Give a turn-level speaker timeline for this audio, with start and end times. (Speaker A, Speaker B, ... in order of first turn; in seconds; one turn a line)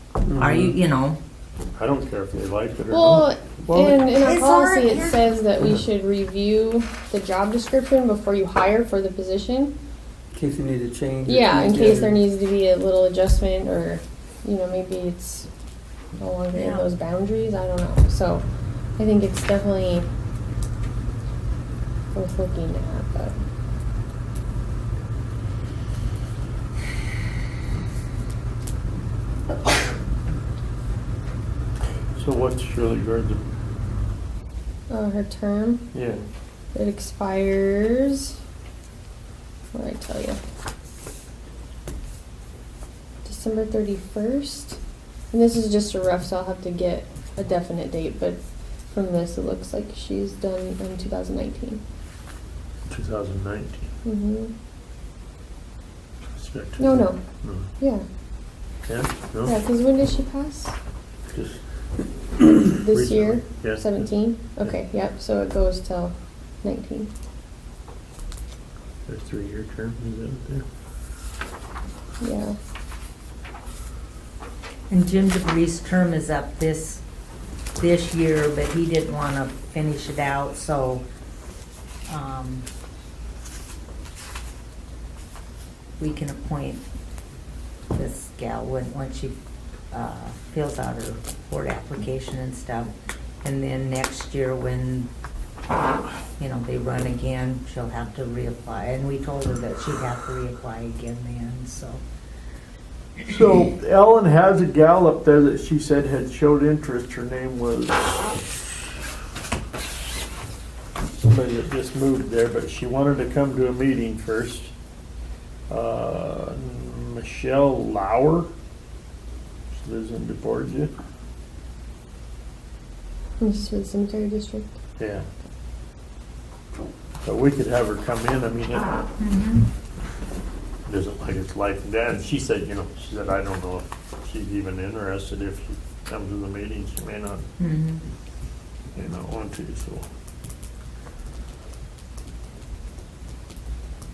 Speaker A: 0.3-0.8
Speaker B: 0.4-1.2
Speaker C: 1.8-3.2
Speaker D: 2.9-9.7
Speaker A: 3.7-4.1
Speaker B: 4.2-5.2
Speaker A: 10.3-12.2
Speaker D: 11.2-15.5
Speaker D: 16.1-18.4
Speaker B: 16.5-16.9
Speaker D: 19.0-20.1
Speaker D: 22.1-23.4
Speaker C: 32.1-33.4
Speaker D: 34.9-35.9
Speaker C: 35.9-36.2
Speaker D: 36.7-38.4
Speaker D: 39.7-40.4
Speaker D: 43.2-44.8
Speaker D: 45.3-48.4
Speaker D: 48.9-51.8
Speaker C: 52.9-53.9
Speaker D: 54.0-54.5
Speaker C: 56.3-57.7
Speaker D: 56.8-57.2
Speaker D: 57.8-58.0
Speaker C: 58.9-59.5
Speaker D: 59.4-60.8
Speaker C: 61.3-61.6
Speaker D: 62.6-67.1
Speaker C: 62.9-64.1
Speaker C: 69.1-70.6
Speaker D: 72.2-72.5
Speaker B: 74.9-77.0
Speaker B: 77.8-81.0
Speaker B: 82.1-82.6
Speaker B: 86.0-86.8
Speaker B: 87.9-89.3
Speaker B: 89.9-95.1
Speaker B: 96.4-102.0
Speaker C: 103.2-108.4
Speaker C: 111.2-114.7
Speaker C: 115.7-118.5
Speaker C: 119.7-120.9
Speaker D: 123.4-124.7
Speaker C: 125.0-125.2
Speaker C: 127.2-128.9
Speaker B: 129.2-129.7
Speaker C: 130.9-137.4
Speaker B: 137.6-138.0
Speaker C: 138.9-140.1